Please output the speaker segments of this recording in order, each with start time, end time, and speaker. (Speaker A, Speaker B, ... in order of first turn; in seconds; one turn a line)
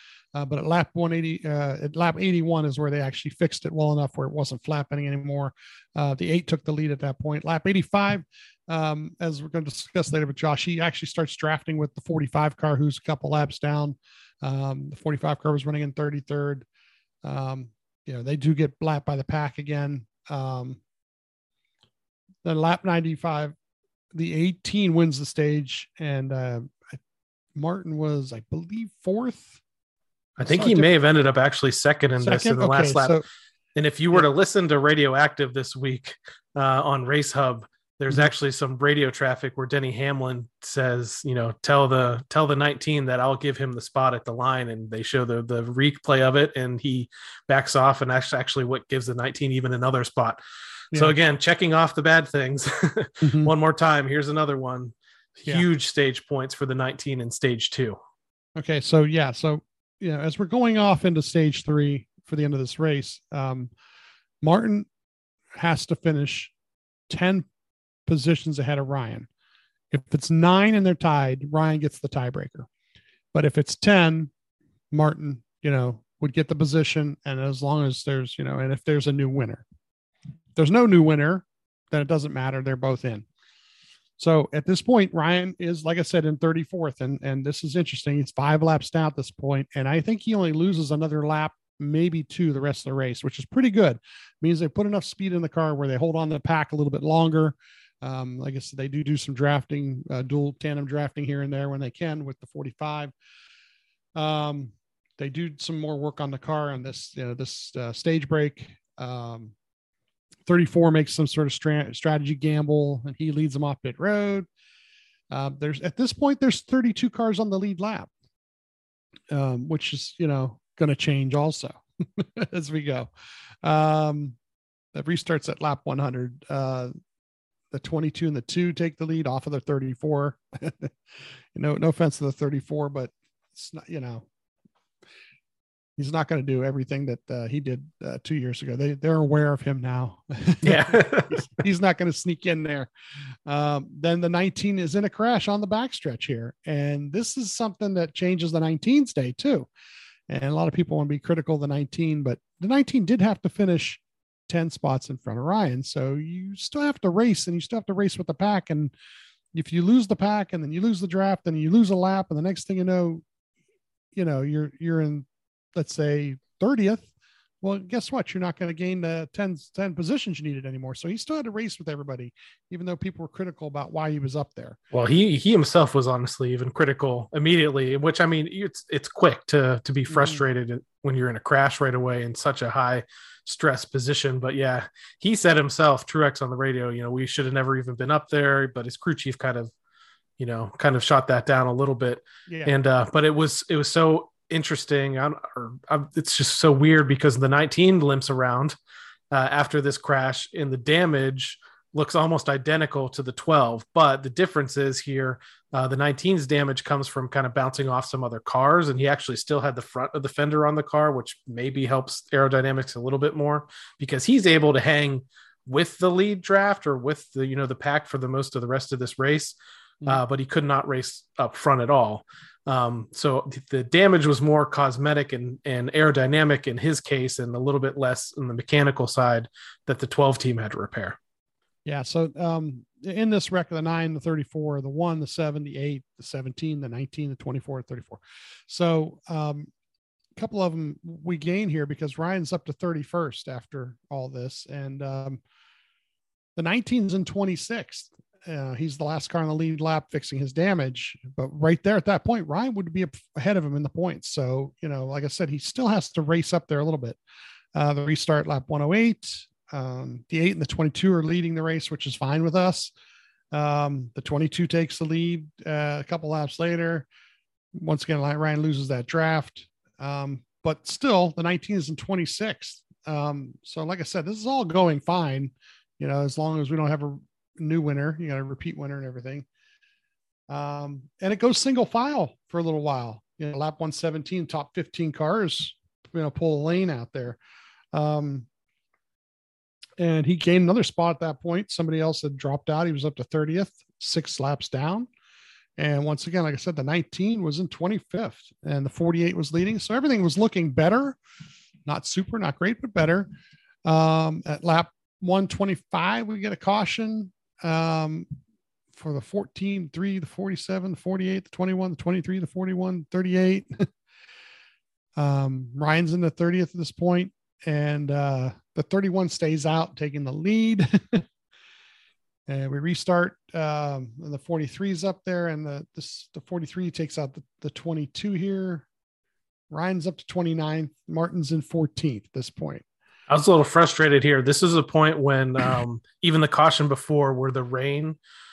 Speaker A: 0.3-16.6
Speaker A: 17.2-20.8
Speaker A: 22.4-23.5
Speaker A: 24.1-27.0
Speaker A: 27.5-29.6
Speaker B: 30.4-33.2
Speaker A: 30.4-30.9
Speaker A: 32.2-33.2
Speaker B: 33.8-50.4
Speaker B: 50.9-58.0
Speaker A: 53.2-53.5
Speaker A: 58.5-63.7
Speaker A: 64.4-64.9
Speaker A: 65.5-66.5
Speaker A: 67.1-67.5
Speaker A: 68.0-69.3
Speaker A: 69.9-72.7
Speaker A: 73.3-74.3
Speaker A: 74.9-79.6
Speaker A: 80.5-83.2
Speaker A: 84.2-103.1
Speaker A: 104.2-109.5
Speaker A: 110.5-114.5
Speaker A: 115.3-118.1
Speaker A: 119.3-123.1
Speaker A: 123.6-124.3
Speaker A: 124.9-126.9
Speaker A: 127.7-130.9
Speaker A: 131.5-134.2
Speaker A: 136.0-142.9
Speaker B: 140.6-141.5
Speaker A: 143.4-149.7
Speaker A: 150.3-158.9
Speaker A: 159.5-163.2
Speaker A: 164.1-167.1
Speaker A: 167.6-174.8
Speaker B: 174.9-189.7
Speaker A: 180.1-180.4
Speaker B: 190.4-198.8
Speaker A: 192.5-192.7
Speaker B: 199.3-231.2
Speaker A: 231.8-239.7
Speaker A: 240.3-245.4
Speaker A: 246.6-257.2
Speaker A: 257.7-262.9
Speaker A: 263.5-267.1
Speaker A: 267.7-279.4
Speaker A: 280.5-287.4
Speaker A: 287.9-288.4
Speaker A: 290.0-295.1
Speaker A: 295.8-301.2
Speaker A: 301.8-303.3
Speaker A: 303.8-308.3
Speaker A: 308.9-313.9
Speaker A: 315.1-321.2
Speaker A: 322.5-328.9
Speaker A: 329.7-332.8
Speaker B: 333.3-338.2